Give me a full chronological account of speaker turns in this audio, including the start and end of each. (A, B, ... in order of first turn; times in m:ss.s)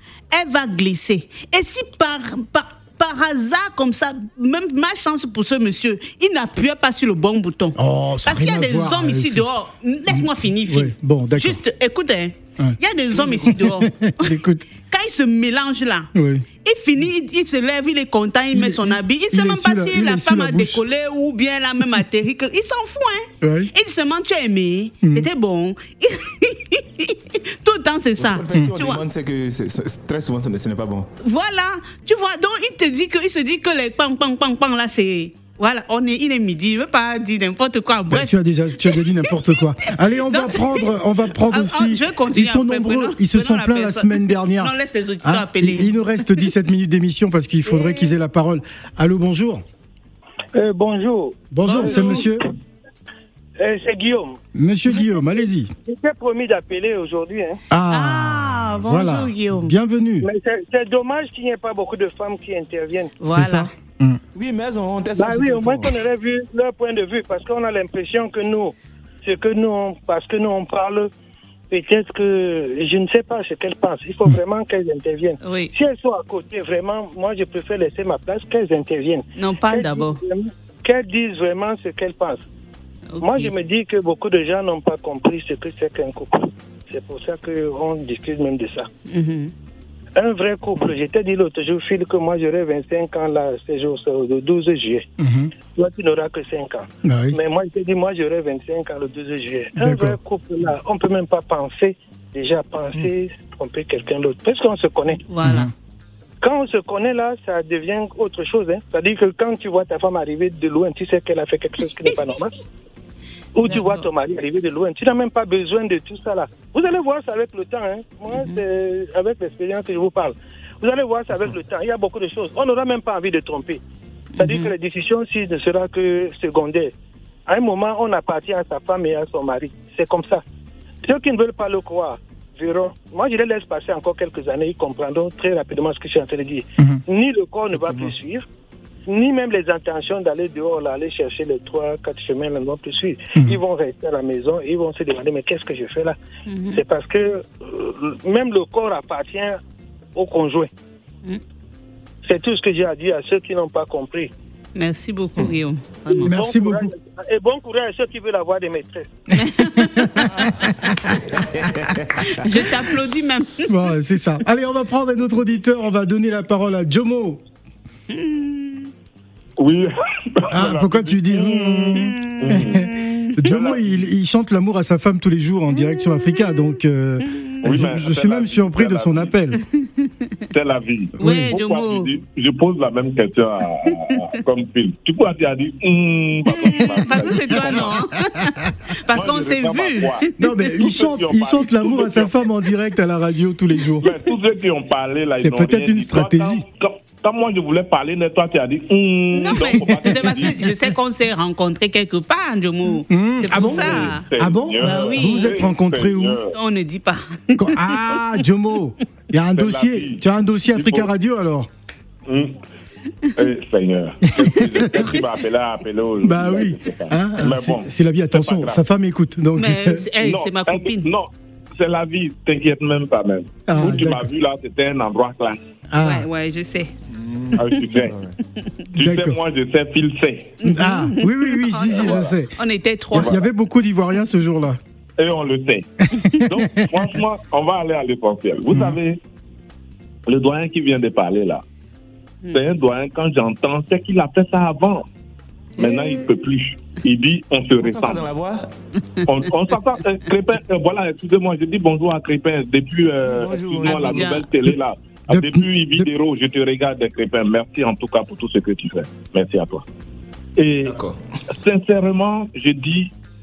0:00.3-0:16.1 A
0:07.8-0:09.5 B
0:10.1-0:11.6 B
0:13.2-0:13.5 C
0:13.5-0:14.7 B
0:16.2-0:16.4 B
0:16.6-0:29.0 A
0:18.5-0:20.8 B
0:23.4-0:23.7 B
0:25.0-0:25.3 B
0:28.2-0:31.1 C
0:31.2-0:40.9 A
0:38.1-0:49.6 B
0:41.5-0:46.4 A
0:47.7-0:48.0 A
0:50.5-0:52.4 D
0:51.5-0:52.4 B
0:51.6-0:52.3 A
0:53.6-0:54.4 D
0:54.6-0:55.7 B
0:55.9-0:57.6 D
0:57.7-1:00.3 B
0:57.9-0:59.7 A
1:00.2-1:03.2 D
1:03.2-1:03.7 A
1:03.2-1:04.2 B
1:04.4-1:06.0 C
1:05.2-1:11.1 D
1:11.7-1:22.4 D
1:15.4-1:15.7 A
1:19.4-1:20.2 A
1:23.1-1:23.5 A
1:23.2-1:28.9 D
1:29.1-1:29.5 A
1:30.2-1:35.1 D
1:35.2-1:35.5 B
1:35.7-1:45.2 D
1:37.0-1:37.4 B
1:39.8-1:40.2 B
1:45.3-1:45.7 A
1:45.4-1:45.7 B
1:46.4-1:52.5 D
1:53.6-2:03.8 D
1:53.7-1:54.1 A
2:04.4-2:06.9 D
2:04.4-2:04.7 A
2:07.5-2:10.4 D
2:11.0-2:18.4 D
2:17.8-2:18.1 C
2:19.1-2:26.2 D
2:26.5-2:26.8 A
2:26.7-2:29.6 D
2:30.2-2:30.7 D
2:32.2-2:34.3 D
2:34.8-2:36.3 A
2:36.2-2:39.1 D
2:36.2-2:36.9 B
2:39.4-2:40.3 A
2:39.7-2:41.2 B
2:41.4-2:42.2 C
2:42.2-2:43.7 A
2:43.7-2:47.4 B
2:48.1-2:48.9 A
2:49.6-2:54.0 E
2:50.5-2:59.6 B
2:51.9-2:53.5 A
2:55.8-2:56.5 A
2:57.3-2:57.6 A
2:57.6-2:59.3 E
3:00.0-3:00.3 A
3:00.5-3:08.0 E
3:01.2-3:01.5 B
3:01.2-3:02.1 A
3:06.5-3:10.6 A
3:09.1-3:12.4 E
3:10.4-3:14.1 B
3:14.0-3:20.7 E
3:15.4-3:16.6 B
3:19.3-3:24.3 A
3:19.9-3:20.4 B
3:23.1-3:26.4 B
3:23.6-3:26.5 E
3:24.8-3:25.6 A
3:26.5-3:28.2 A
3:27.6-3:31.7 B
3:29.5-3:31.1 E
3:32.3-3:32.6 E
3:33.4-3:38.8 E
3:34.4-3:35.2 B
3:36.2-3:40.0 B
3:39.6-3:41.1 A
3:40.2-3:45.6 E
3:43.7-3:44.3 B
3:43.8-3:44.0 A
3:45.9-3:46.3 B
3:46.0-3:46.9 A
3:47.1-3:48.4 C
3:47.6-3:48.2 E
3:48.9-3:50.6 E
3:49.0-3:49.4 B
3:50.6-3:53.4 A
3:50.6-3:52.5 B
3:51.9-3:52.4 E
3:53.1-3:54.8 B
3:53.1-3:53.4 E
3:55.2-3:59.2 E
3:56.1-3:56.7 B
3:58.7-3:59.0 B
4:00.3-4:01.6 E
4:02.5-4:05.1 E
4:05.8-4:08.3 E
4:05.8-4:06.2 A
4:07.8-4:08.7 C
4:09.3-4:19.8 E
4:13.2-4:14.4 C
4:13.8-4:14.5 A
4:15.3-4:16.1 B
4:20.6-4:21.0 E
4:20.8-4:21.2 C
4:21.5-4:23.1 E